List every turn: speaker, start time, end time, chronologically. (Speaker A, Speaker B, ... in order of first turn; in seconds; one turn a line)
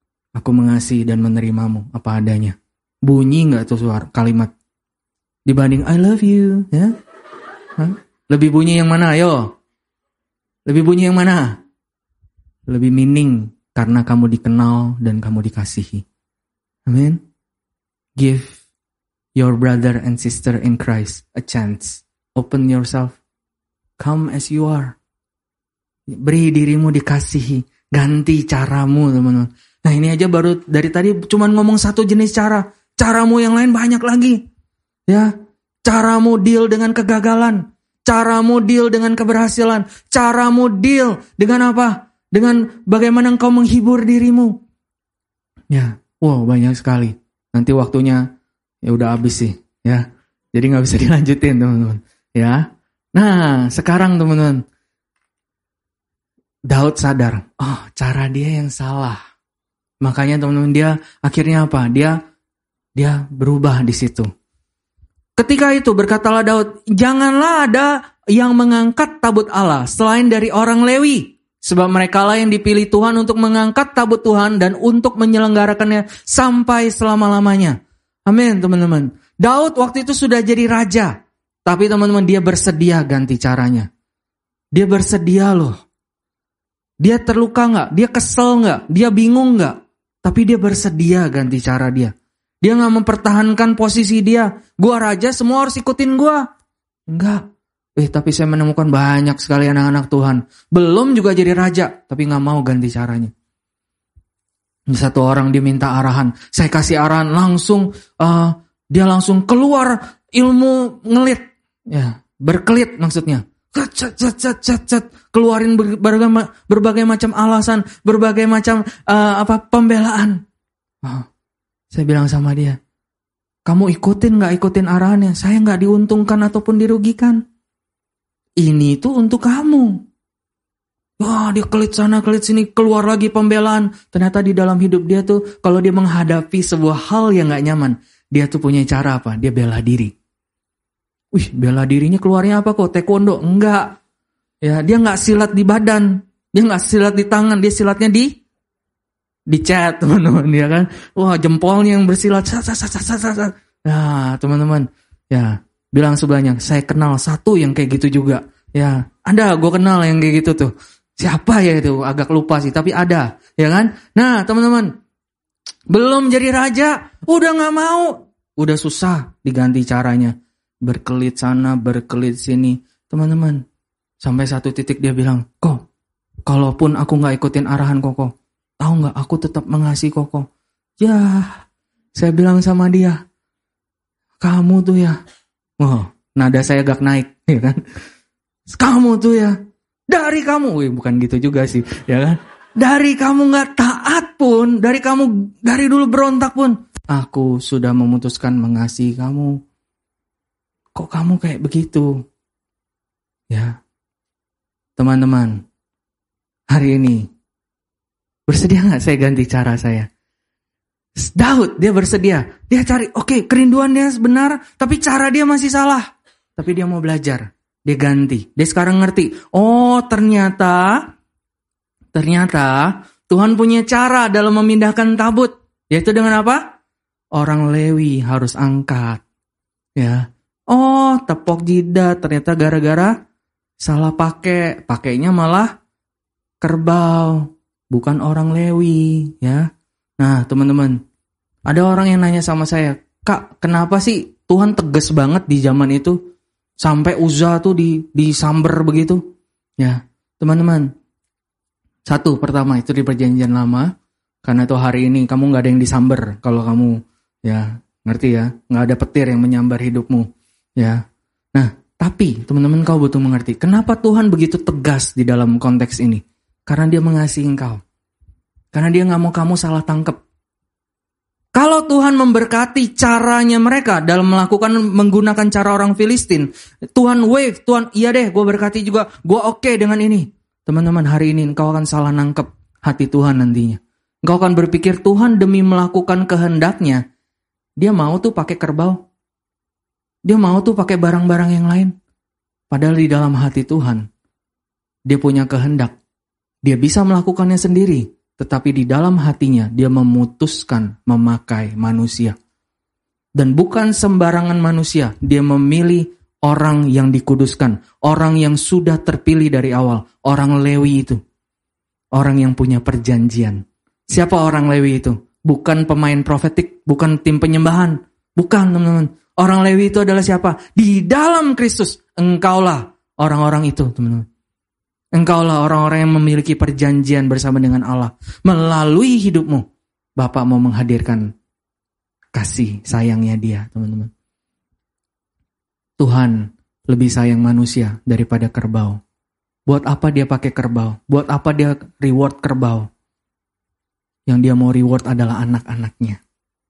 Speaker A: 0.3-4.5
Speaker A: 5.5-6.9
Speaker A: 7.8-9.5
Speaker A: 10.7-11.6
Speaker A: 12.7-16.1
Speaker A: 16.9-17.2
Speaker A: 18.2-18.6
Speaker A: 19.4-23.2
Speaker A: 24.0-25.0
Speaker A: 26.1-34.4
Speaker A: 35.9-44.6
Speaker A: 45.7-48.3
Speaker A: 48.8-54.6
Speaker A: 56.7-59.2
Speaker A: 60.0-62.2
Speaker A: 63.0-64.3
Speaker A: 65.4-83.9
Speaker A: 84.7-85.7
Speaker A: 87.0-92.1
Speaker A: 92.6-96.5
Speaker A: 97.1-97.5
Speaker A: 98.0-103.3
Speaker A: 104.9-120.4
Speaker A: 121.9-122.8
Speaker A: 123.7-127.4
Speaker A: 128.6-130.0
Speaker A: 131.2-140.1
Speaker A: 141.3-144.0
Speaker A: 144.6-148.3
Speaker A: 149.5-164.9
Speaker A: 165.9-173.6
Speaker A: 174.2-175.8
Speaker A: 176.5-180.5
Speaker A: 181.0-181.6
Speaker A: 182.2-183.2
Speaker A: 184.4-185.2
Speaker A: 185.8-187.8
Speaker A: 188.7-189.6
Speaker A: 190.1-199.6
Speaker A: 200.9-202.2
Speaker A: 203.5-203.8
Speaker A: 205.0-205.6
Speaker A: 206.7-207.3
Speaker A: 208.5-210.1
Speaker A: 211.2-221.1
Speaker A: 222.1-226.6
Speaker A: 227.3-229.2
Speaker A: 230.0-233.2
Speaker A: 233.8-235.7
Speaker A: 236.6-239.7
Speaker A: 240.2-241.0
Speaker A: 241.7-246.2
Speaker A: 246.8-249.2
Speaker A: 249.8-250.9
Speaker A: 252.1-253.9
Speaker A: 254.4-261.0
Speaker A: 261.6-267.8
Speaker A: 268.7-270.2
Speaker A: 271.6-287.0
Speaker A: 287.8-289.0
Speaker A: 290.3-291.9
Speaker A: 292.7-294.1
Speaker A: 295.1-296.0
Speaker A: 296.6-302.4
Speaker A: 303.4-311.2
Speaker A: 312.1-324.3
Speaker A: 325.1-329.6
Speaker A: 330.2-331.3
Speaker A: 332.3-334.1
Speaker A: 336.0-339.0
Speaker A: 339.7-342.9
Speaker A: 344.3-346.2